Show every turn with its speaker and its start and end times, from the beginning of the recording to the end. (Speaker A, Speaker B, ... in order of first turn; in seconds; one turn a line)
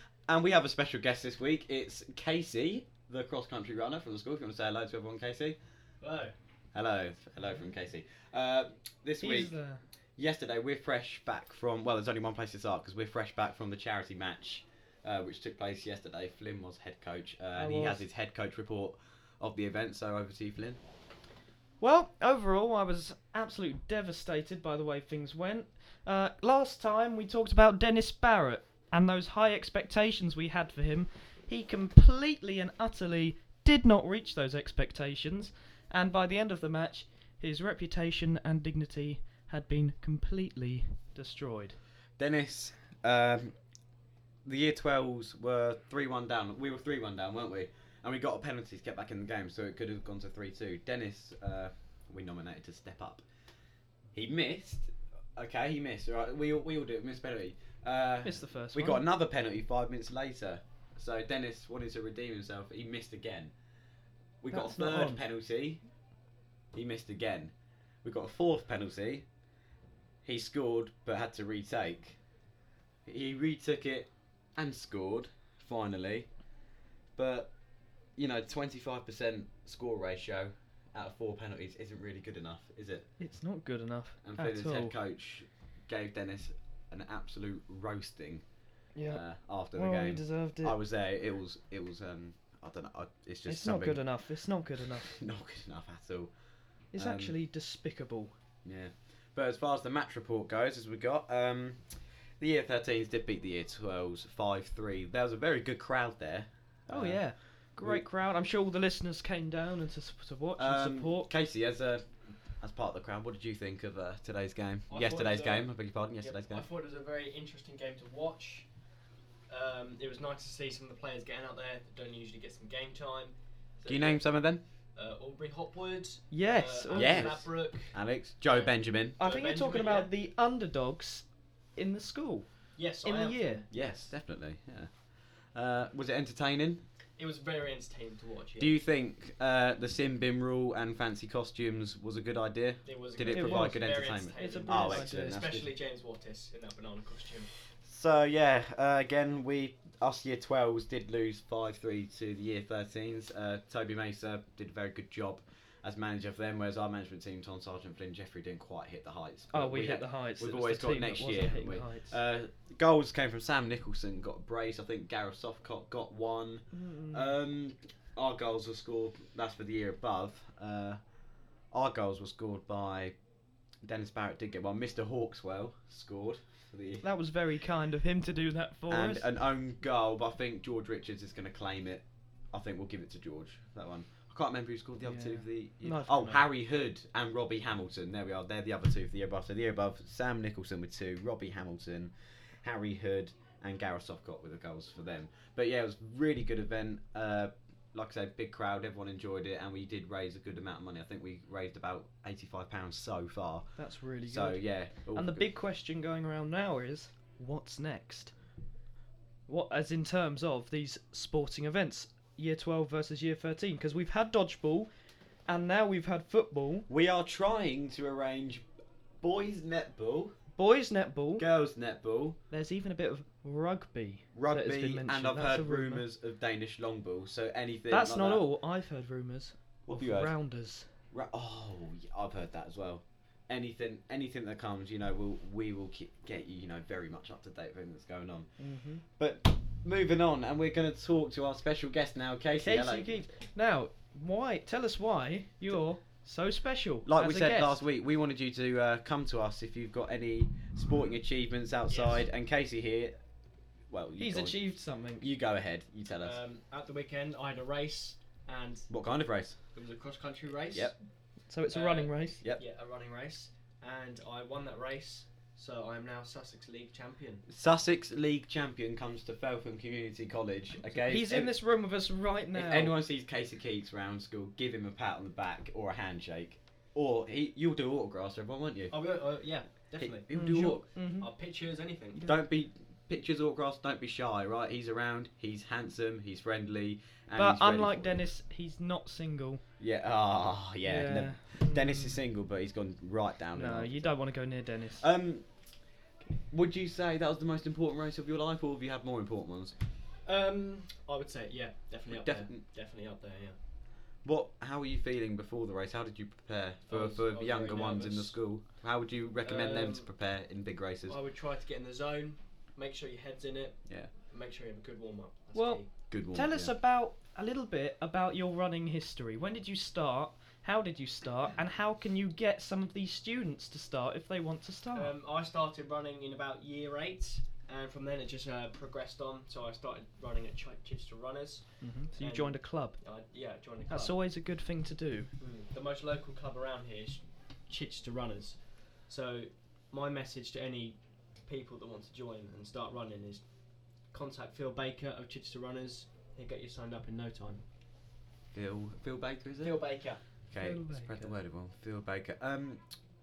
Speaker A: 0.3-5.6
Speaker B: 6.0-6.3
Speaker A: 6.7-9.6
Speaker C: 9.2-9.8
Speaker A: 10.2-20.8
Speaker C: 17.6-18.1
Speaker C: 21.8-41.8
Speaker A: 42.2-43.6
Speaker A: 44.5-53.2
Speaker A: 54.1-63.5
Speaker C: 58.2-59.1
Speaker A: 64.4-65.8
Speaker C: 64.5-65.2
Speaker A: 66.7-67.5
Speaker A: 68.0-69.3
Speaker A: 70.2-72.2
Speaker A: 73.1-76.3
Speaker A: 77.2-77.5
Speaker A: 78.2-83.1
Speaker C: 83.2-85.0
Speaker A: 84.2-88.4
Speaker C: 89.0-89.2
Speaker A: 89.1-94.1
Speaker C: 89.7-90.8
Speaker C: 93.5-95.1
Speaker A: 94.9-96.3
Speaker C: 96.9-98.3
Speaker A: 97.0-97.4
Speaker A: 98.7-108.0
Speaker C: 106.9-111.3
Speaker A: 110.6-116.7
Speaker B: 114.9-118.7
Speaker B: 119.5-124.4
Speaker A: 123.9-124.6
Speaker B: 125.0-130.1
Speaker C: 126.3-127.5
Speaker A: 126.9-129.2
Speaker C: 129.2-133.7
Speaker B: 132.8-133.7
Speaker A: 133.7-134.9
Speaker A: 135.5-136.8
Speaker B: 137.2-138.8
Speaker A: 138.6-145.7
Speaker B: 142.8-147.5
Speaker C: 143.3-145.5
Speaker A: 147.8-171.0
Speaker C: 159.5-162.2
Speaker C: 166.7-167.4
Speaker A: 171.7-173.2
Speaker A: 173.8-177.1
Speaker C: 177.0-179.3
Speaker A: 178.9-205.4
Speaker C: 185.0-186.5
Speaker C: 203.8-208.3
Speaker C: 209.5-214.9
Speaker C: 215.5-216.9
Speaker A: 216.9-218.7
Speaker A: 219.2-220.3
Speaker C: 220.6-221.4
Speaker A: 221.4-222.4
Speaker C: 222.5-226.1
Speaker A: 224.3-228.4
Speaker C: 227.9-230.9
Speaker A: 229.9-230.4
Speaker A: 231.1-238.6
Speaker C: 238.6-239.0
Speaker A: 239.2-243.1
Speaker C: 242.6-247.8
Speaker A: 247.1-253.2
Speaker B: 251.9-252.2
Speaker A: 253.9-256.4
Speaker C: 254.2-255.3
Speaker B: 256.2-259.1
Speaker A: 258.9-259.6
Speaker B: 259.6-260.9
Speaker C: 261.5-262.4
Speaker B: 261.7-267.5
Speaker A: 267.5-271.6
Speaker C: 271.0-273.0
Speaker A: 272.5-279.0
Speaker B: 278.9-282.2
Speaker A: 280.0-280.8
Speaker C: 280.3-281.3
Speaker C: 282.1-282.4
Speaker A: 282.2-288.2
Speaker C: 287.4-289.6
Speaker A: 289.8-294.1
Speaker C: 290.8-292.2
Speaker C: 293.5-295.1
Speaker A: 295.0-295.5
Speaker A: 296.5-299.7
Speaker B: 300.2-303.6
Speaker A: 302.1-302.6
Speaker A: 304.2-311.2
Speaker B: 306.9-308.4
Speaker B: 309.4-310.1
Speaker B: 311.1-316.1
Speaker C: 315.5-325.1
Speaker A: 316.1-316.8
Speaker B: 324.9-334.2
Speaker C: 331.8-333.0
Speaker C: 333.9-335.3
Speaker B: 335.4-343.5
Speaker B: 344.0-347.6
Speaker A: 348.5-349.8
Speaker B: 349.6-350.4
Speaker A: 350.5-352.9
Speaker C: 350.6-351.3